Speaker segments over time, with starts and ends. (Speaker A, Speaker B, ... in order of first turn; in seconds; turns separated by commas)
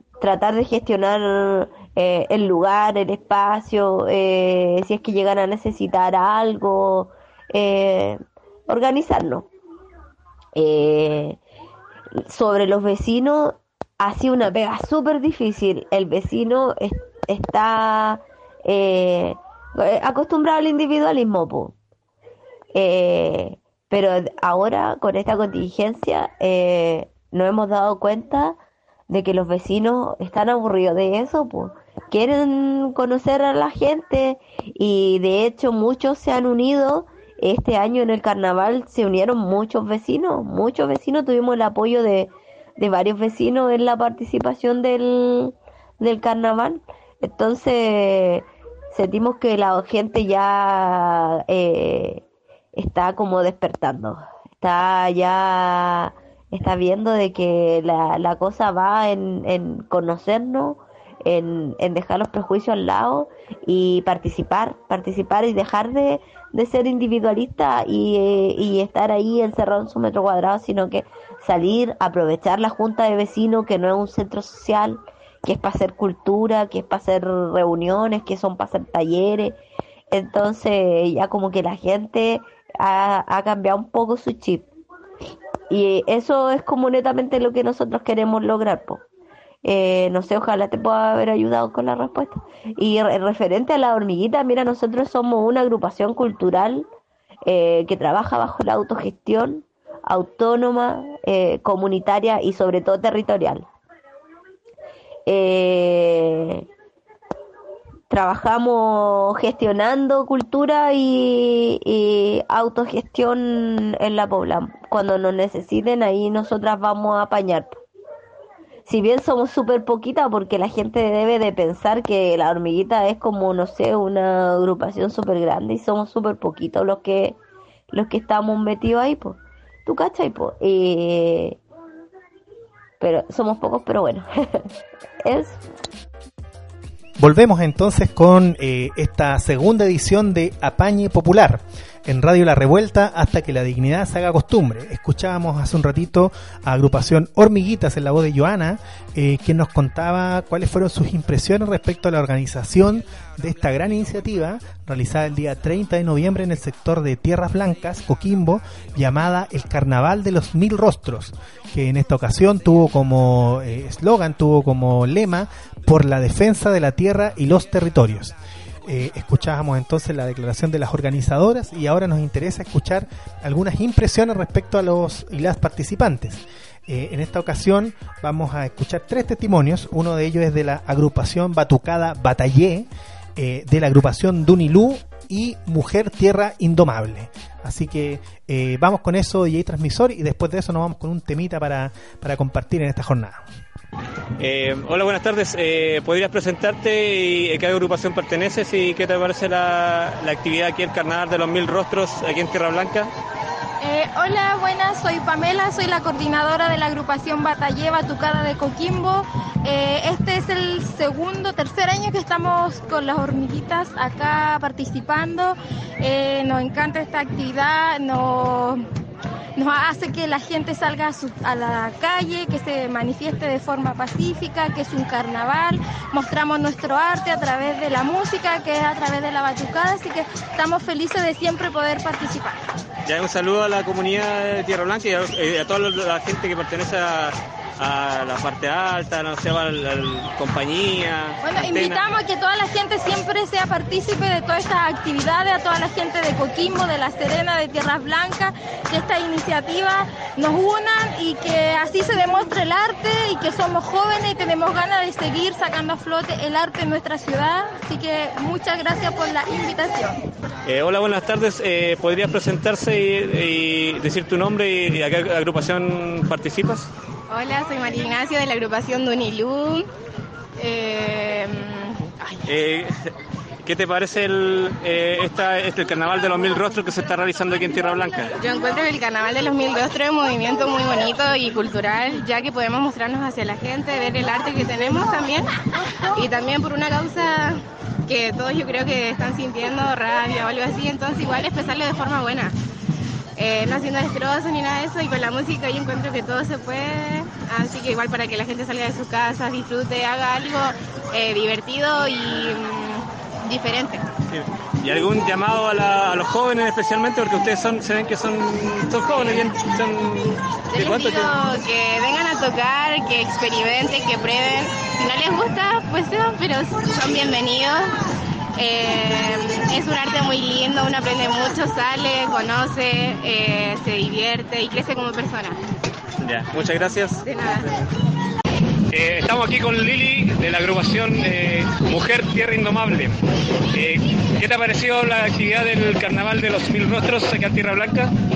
Speaker A: 0.2-9.5, Speaker A: 10.5-11.4, Speaker A: 12.1-21.8, Speaker A: 22.7-28.6, Speaker A: 29.1-52.2, Speaker A: 52.7-79.6, Speaker A: 80.1-84.7, Speaker A: 85.7-89.0, Speaker A: 89.6-96.9, Speaker A: 97.4-103.7, Speaker A: 105.2-106.7, Speaker A: 108.1-117.8, Speaker A: 118.8-127.4, Speaker A: 127.9-131.6, Speaker A: 133.0-134.7, Speaker A: 135.2-135.6, Speaker B: 137.2-168.3, Speaker B: 168.8-193.4, Speaker C: 194.4-203.1, Speaker D: 203.8-218.8, Speaker D: 219.6-232.6, Speaker C: 233.1-242.0, Speaker D: 241.4-260.1, Speaker C: 260.6-266.9, Speaker E: 267.3-269.9, Speaker E: 270.6-272.4, Speaker C: 272.4-273.1, Speaker C: 273.6-278.3, Speaker E: 278.4-285.5, Speaker E: 286.1-292.6, Speaker E: 293.4-304.1, Speaker C: 304.3-311.4, Speaker E: 310.7-317.9, Speaker E: 318.6-325.6, Speaker C: 326.2-327.9, Speaker E: 327.2-327.7, Speaker C: 328.9-333.2, Speaker C: 333.7-338.1